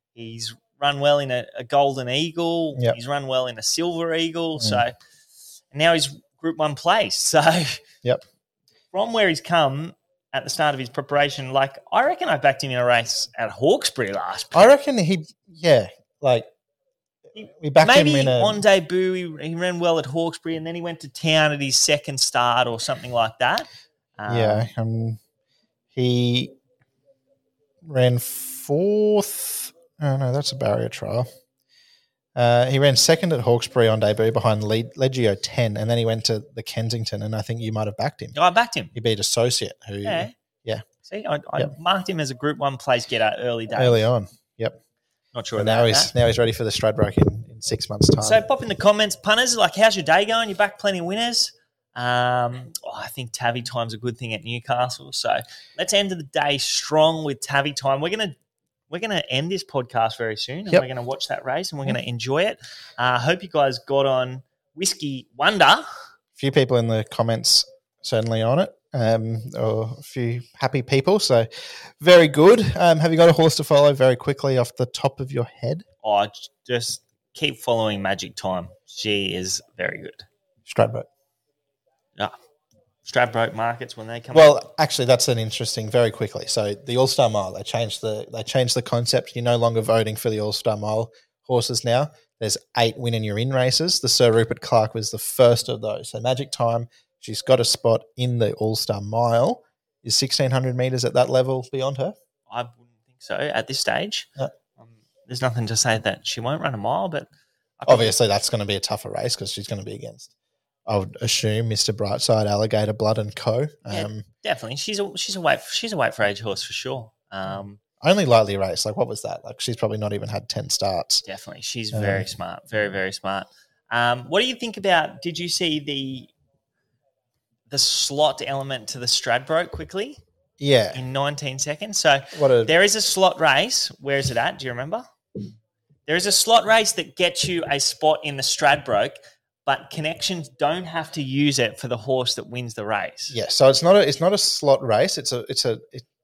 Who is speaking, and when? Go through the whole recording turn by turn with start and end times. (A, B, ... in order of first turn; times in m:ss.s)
0:00.1-0:05.0 A
0:04.6-0:04.8 B
0:05.7-0:07.8 A
0:08.9-0:14.7 A
0:14.5-0:16.4 B
0:17.3-0:18.6 B
0:17.8-0:24.6 A
0:24.2-0:25.2 B
0:25.9-0:26.5 B
0:27.8-0:31.3 B
0:32.4-0:38.4 B
0:38.3-0:38.9 A
0:38.9-0:40.8 B
0:40.0-0:40.3 A
0:41.0-0:44.1 A
0:43.7-0:44.8 B
0:45.3-0:46.1 A
0:45.6-0:48.4 B
0:48.2-0:58.3 A
0:58.9-1:05.8 A
1:06.4-1:11.5 B
1:12.0-1:15.8 B
1:16.0-1:20.2 A
1:20.6-1:21.1 B
1:23.0-1:24.6 A
1:24.3-1:42.1 B
1:42.5-1:44.3 A
1:44.8-1:47.3 A
1:47.8-1:48.1 A
1:47.9-1:50.3 B
1:50.9-1:54.2 B
1:53.9-1:57.8 A
1:57.5-2:01.2 B
2:01.2-2:06.3 A
2:01.9-2:02.3 B
2:07.7-2:10.2 A
2:10.6-2:11.0 B
2:10.9-2:15.0 A
2:12.3-2:12.8 B
2:16.1-2:23.4 A
2:23.3-2:26.0 B